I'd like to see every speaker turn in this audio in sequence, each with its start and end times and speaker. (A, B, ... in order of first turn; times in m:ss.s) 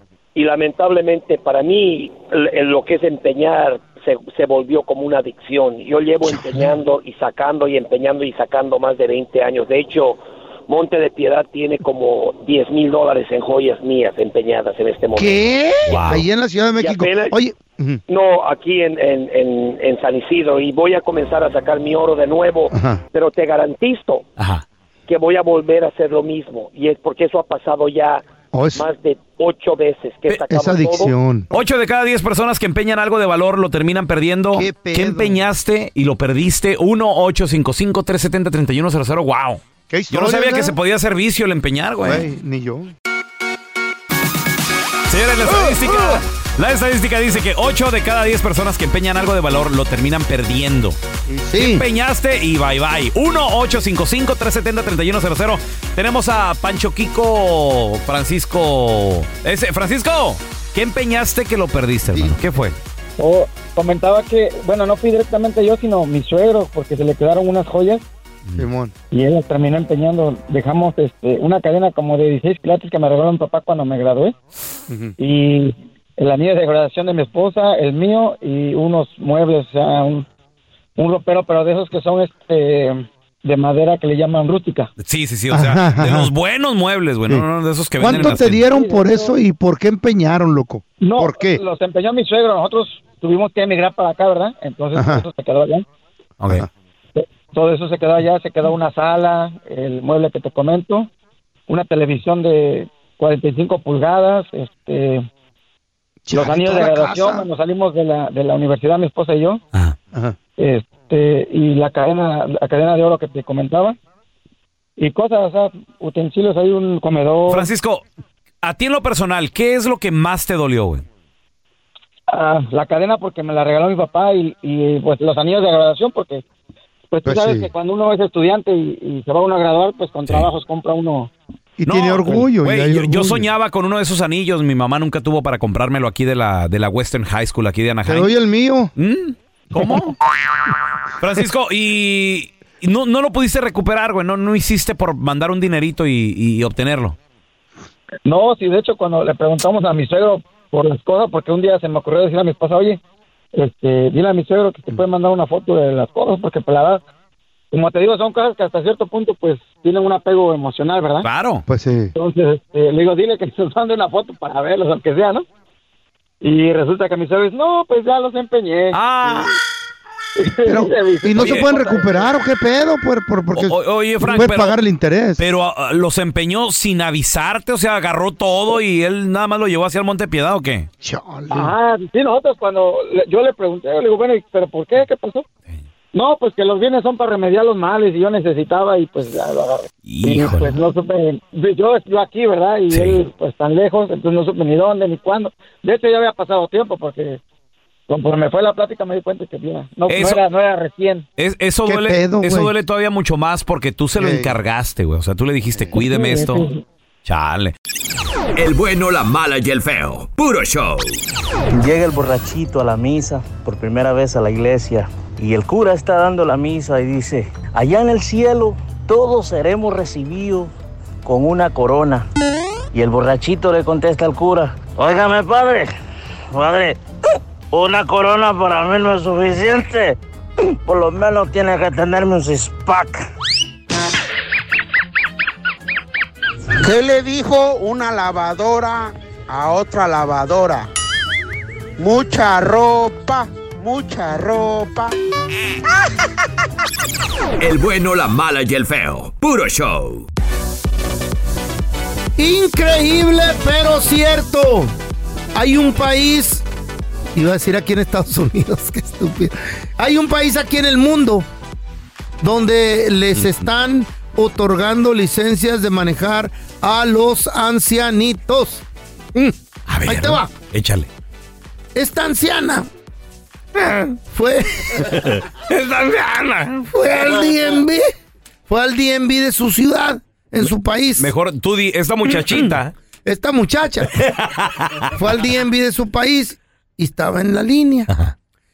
0:00.4-0:16.2 A
0:06.2-0:06.8 B
0:15.2-0:18.0 B
0:15.9-0:16.2 C
0:16.8-0:17.4 A
0:18.1-0:24.2 A
0:22.7-0:23.0 B
0:24.4-0:24.6 C
0:25.1-0:28.2 A
0:28.5-0:28.9 B
0:28.8-0:31.1 A
0:30.5-0:31.5 B
0:31.5-0:42.3 C
0:34.5-0:35.4 B
0:39.9-0:40.8 B
0:42.0-0:42.9 B
0:45.1-0:51.0 C
0:45.5-0:46.2 B
0:51.3-0:51.8 B
0:51.6-1:02.8 C
1:02.1-1:02.4 B
1:03.2-1:08.0 D
1:08.6-1:09.0 B
1:09.1-1:14.4 D
1:14.9-1:15.2 B
1:15.2-1:20.2 D
1:21.0-1:24.9 D
1:25.0-1:28.6 C
1:25.5-1:26.3 B
1:28.0-1:31.6 B
1:28.1-1:29.4 D
1:31.0-1:35.8 D
1:35.0-1:35.2 B
1:36.4-1:36.7 C
1:37.2-1:41.1 D
1:41.7-1:45.3 D
1:46.2-1:47.5 B
1:46.3-1:49.6 D
1:50.6-1:54.0 D
1:55.0-1:57.7 D
1:57.5-1:58.1 C
1:58.6-2:01.0 C
2:02.3-2:06.4 D
2:07.1-2:11.3 D
2:07.2-2:07.7 B
2:11.8-2:13.5 B
2:11.9-2:18.3 C
2:18.1-2:18.9 B
2:19.0-2:20.2 C
2:21.2-2:27.2 C
2:28.2-2:33.0 D
2:33.5-2:37.0 D
2:37.7-2:41.3 D
2:41.2-2:41.6 C
2:41.7-2:42.1 B
2:42.2-2:45.4 D
2:46.4-2:49.0 D
2:48.9-2:49.5 C
2:50.4-2:52.3 D
2:50.7-2:55.4 B
2:51.4-2:51.8 C
2:53.5-2:54.8 C
2:55.4-3:00.9 C
3:01.0-3:01.8 B
3:01.5-3:05.5 D
3:06.1-3:17.4 D
3:10.1-3:10.9 C
3:12.9-3:13.2 C
3:18.1-3:21.3 D
3:20.1-3:20.4 C
3:21.4-3:26.7 C
3:21.9-3:22.7 B
3:24.2-3:24.6 B
3:25.9-3:26.8 D
3:27.3-3:27.7 C
3:28.6-3:31.1 E
3:31.7-3:40.7 F
3:41.2-3:42.3 F
3:42.9-3:46.0 F
3:46.5-3:47.0 F
3:47.7-3:50.2 F
3:50.8-3:53.3 F
3:56.8-4:00.9 G
4:02.0-4:05.1 G
4:07.6-4:10.3 E
4:12.4-4:14.9 B
4:15.5-4:16.6 B
4:17.3-4:21.5 B
4:22.4-4:30.5 B
4:23.4-4:23.6 C
4:29.9-4:31.1 C
4:31.9-4:32.9 B
4:33.8-4:38.1 B
4:38.7-4:41.3 B
4:40.6-4:42.9 C
4:42.3-4:44.1 B
4:44.1-4:45.1 C
4:45.1-4:48.1 B
4:48.1-4:48.3 C